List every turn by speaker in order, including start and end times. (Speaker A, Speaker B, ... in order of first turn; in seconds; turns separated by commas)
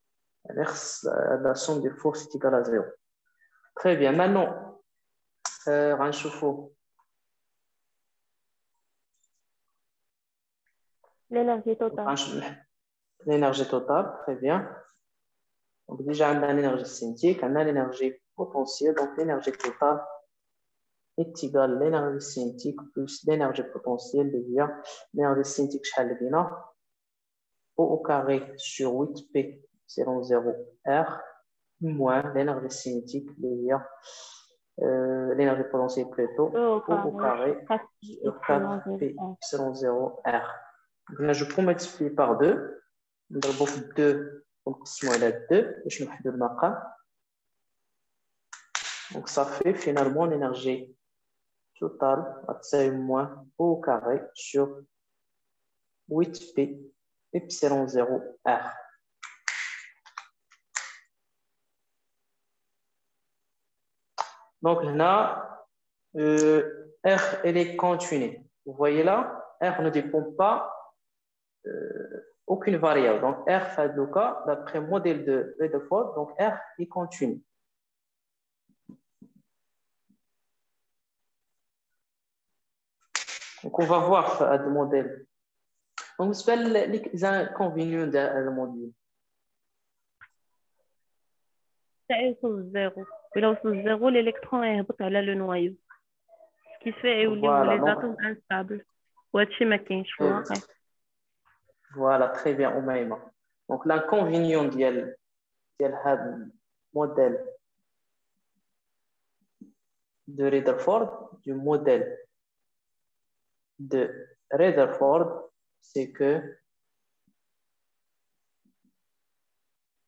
Speaker A: 0.5-2.9, Speaker A: 3.7-4.8, Speaker A: 5.6-6.7, Speaker B: 11.3-12.1, Speaker A: 11.9-12.6, Speaker A: 13.2-14.8, Speaker A: 15.9-20.0, Speaker A: 21.2-26.7, Speaker A: 27.8-31.2, Speaker A: 31.8-33.8, Speaker A: 34.8-40.5, Speaker B: 36.5-39.4, Speaker A: 41.1-47.0, Speaker A: 49.1-51.0, Speaker A: 51.8-54.9, Speaker A: 56.1-58.8, Speaker A: 64.6-65.6, Speaker A: 66.1-70.8, Speaker A: 71.6-77.4, Speaker A: 83.6-85.2, Speaker A: 86.2-88.9, Speaker B: 92.1-95.8, Speaker B: 96.8-100.6, Speaker A: 97.2-98.1, Speaker A: 100.2-100.5, Speaker A: 101.9-105.2, Speaker A: 105.8-107.5, Speaker A: 110.3-112.2, Speaker A: 113.8-116.6